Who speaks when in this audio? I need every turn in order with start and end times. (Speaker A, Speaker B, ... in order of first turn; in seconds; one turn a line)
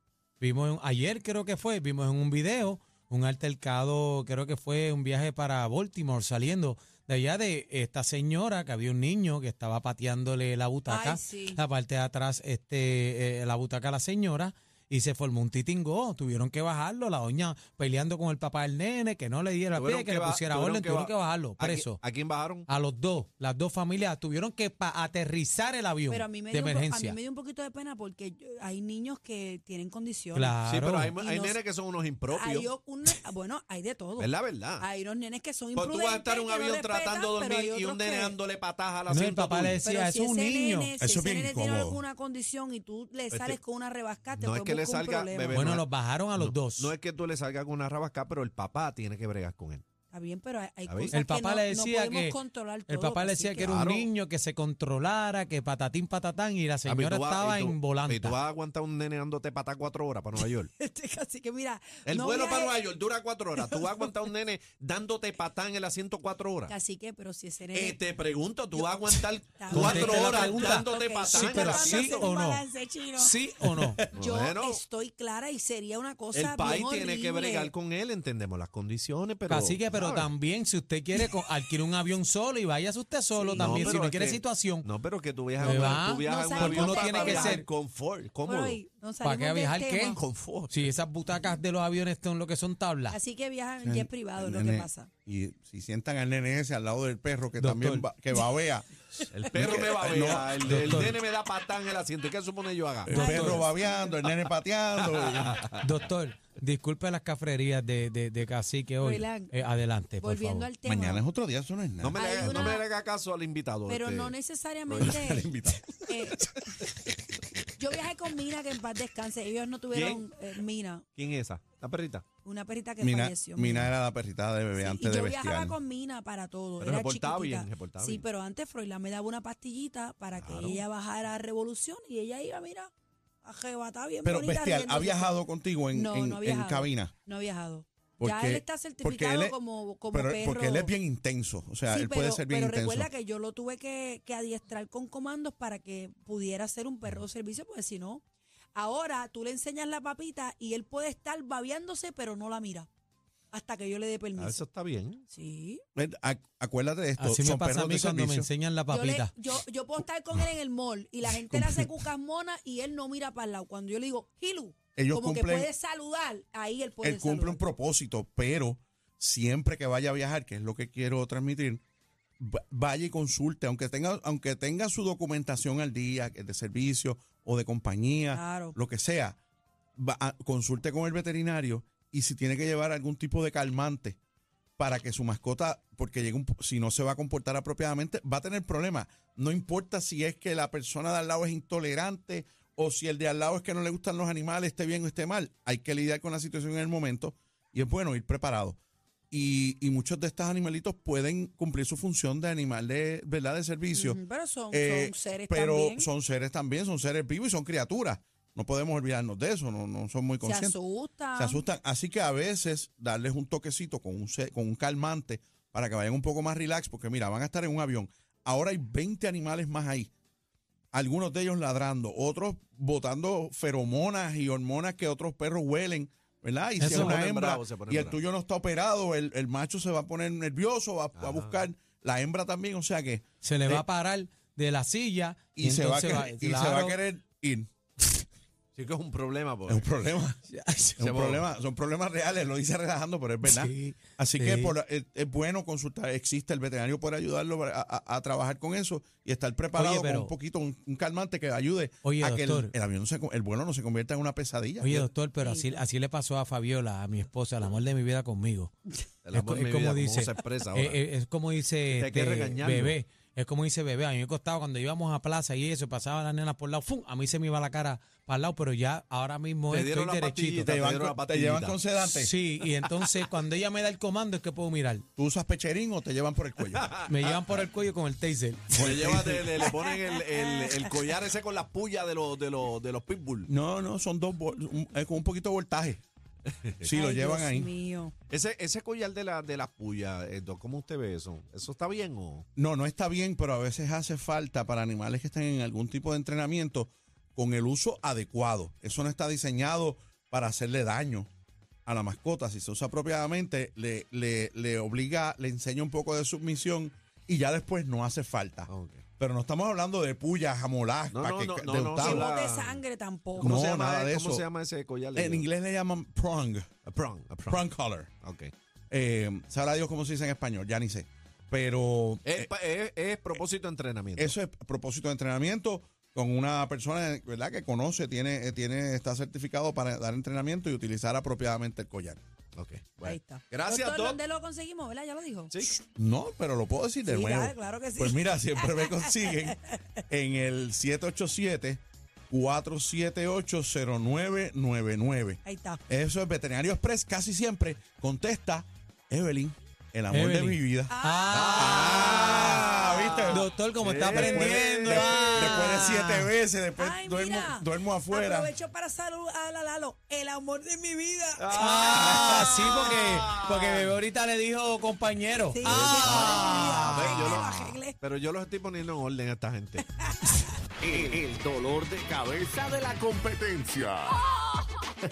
Speaker A: 0.4-22.0
Speaker B: 10.9-11.6
Speaker C: 19.8-22.7
Speaker A: 22.6-27.2
Speaker B: 26.1-30.6
Speaker A: 30.3-31.1
Speaker C: 30.6-32.7
Speaker B: 31.1-31.6
Speaker B: 32.3-38.4
Speaker C: 34.2-34.8
Speaker C: 35.7-39.8
Speaker A: 39.1-40.9
Speaker B: 39.8-45.7
Speaker D: 41.0-42.0
Speaker C: 43.3-43.6
Speaker C: 44.4-49.8
Speaker A: 45.5-46.9
Speaker B: 50.1-53.7
Speaker C: 50.9-51.1
Speaker A: 51.1-58.4
Speaker C: 53.6-54.1
Speaker C: 56.8-60.7
Speaker B: 60.8-62.8
Speaker C: 62.0-66.7
Speaker B: 63.6-64.1
Speaker B: 66.7-68.0
Speaker C: 67.7-72.3
Speaker B: 68.7-73.4
Speaker A: 69.7-72.6
Speaker A: 73.2-74.0
Speaker C: 73.8-74.8
Speaker B: 74.1-77.7
Speaker C: 76.3-80.3
Speaker A: 79.5-84.9
Speaker B: 83.3-84.0
Speaker C: 83.5-88.8
Speaker A: 85.6-87.7
Speaker B: 85.6-87.6
Speaker B: 88.4-90.2
Speaker A: 89.2-93.2
Speaker C: 90.1-90.9
Speaker B: 93.1-95.1
Speaker D: 93.8-98.9
Speaker A: 97.6-98.0
Speaker C: 99.3-103.2
Speaker D: 99.5-101.1
Speaker A: 100.6-101.2
Speaker D: 103.0-105.7
Speaker A: 103.1-103.6
Speaker B: 103.1-104.2
Speaker C: 105.0-105.8
Speaker A: 105.7-110.7
Speaker B: 109.0-109.5
Speaker B: 110.2-111.2
Speaker D: 110.8-112.2
Speaker C: 112.0-114.3
Speaker B: 112.1-112.9
Speaker B: 113.9-116.5
Speaker C: 114.9-115.3
Speaker D: 115.0-116.5
Speaker B: 117.7-121.0
Speaker C: 119.9-120.3
Speaker C: 121.2-122.2
Speaker B: 122.4-123.9
Speaker D: 123.0-125.8
Speaker B: 124.8-132.9
Speaker C: 126.8-128.2
Speaker C: 130.4-130.8
Speaker B: 133.4-135.3
Speaker D: 134.2-137.1
Speaker B: 135.9-140.9
Speaker D: 138.2-139.6
Speaker D: 140.1-143.1
Speaker B: 141.9-148.2
Speaker B: 148.7-152.9
Speaker B: 153.5-154.6
Speaker C: 154.4-155.2
Speaker B: 155.3-155.8
Speaker D: 155.9-158.5
Speaker A: 157.2-159.3
Speaker B: 158.9-167.6
Speaker D: 161.3-161.9
Speaker D: 164.9-165.7
Speaker D: 167.0-171.8
Speaker D: 172.4-179.4
Speaker B: 178.3-178.8
Speaker D: 180.0-184.2
Speaker D: 184.8-198.8
Speaker D: 199.3-204.2
Speaker B: 203.9-206.1
Speaker D: 204.7-210.8
Speaker B: 210.4-211.7
Speaker D: 211.3-220.1
Speaker D: 220.9-233.8
Speaker A: 226.8-227.2
Speaker C: 226.8-228.2
Speaker C: 231.2-231.7
Speaker A: 233.4-237.0
Speaker D: 235.6-237.7
Speaker C: 238.8-239.9
Speaker D: 239.7-240.4
Speaker A: 240.5-241.0
Speaker D: 241.0-255.1
Speaker C: 241.0-241.5
Speaker A: 243.4-244.8
Speaker A: 249.7-250.3
Speaker A: 252.0-252.7
Speaker A: 254.8-258.7
Speaker B: 255.4-255.8
Speaker C: 259.2-261.0
Speaker A: 259.3-270.8
Speaker C: 261.9-262.9
Speaker C: 269.7-271.8
Speaker D: 270.6-272.3
Speaker A: 272.0-275.0
Speaker D: 275.2-276.9
Speaker C: 276.7-277.1
Speaker A: 277.0-279.7
Speaker C: 278.7-283.5
Speaker D: 278.8-279.5
Speaker B: 279.6-280.9
Speaker D: 283.5-286.0
Speaker C: 286.5-286.9
Speaker B: 286.8-288.1
Speaker D: 286.8-287.7
Speaker C: 288.3-292.4
Speaker D: 292.6-301.3
Speaker D: 301.9-312.3
Speaker C: 308.7-309.0
Speaker C: 311.1-312.8
Speaker B: 312.0-313.6
Speaker C: 313.4-315.5
Speaker D: 313.4-314.4
Speaker D: 315.1-316.7
Speaker C: 316.9-317.6
Speaker D: 317.5-318.1
Speaker C: 318.2-318.5
Speaker D: 318.9-322.5
Speaker C: 322.2-324.4
Speaker D: 324.2-332.2
Speaker C: 332.6-334.2
Speaker B: 333.0-335.5
Speaker D: 335.8-350.9
Speaker B: 337.0-339.8
Speaker B: 345.4-345.8
Speaker A: 350.1-352.7
Speaker B: 350.9-353.1
Speaker C: 351.3-355.7
Speaker D: 352.1-353.5
Speaker A: 353.3-356.3
Speaker D: 354.1-358.5
Speaker B: 356.8-363.2
Speaker C: 361.4-364.0
Speaker A: 361.6-367.4
Speaker B: 365.5-368.0
Speaker C: 365.6-369.9
Speaker B: 370.1-370.4
Speaker E: 370.8-374.2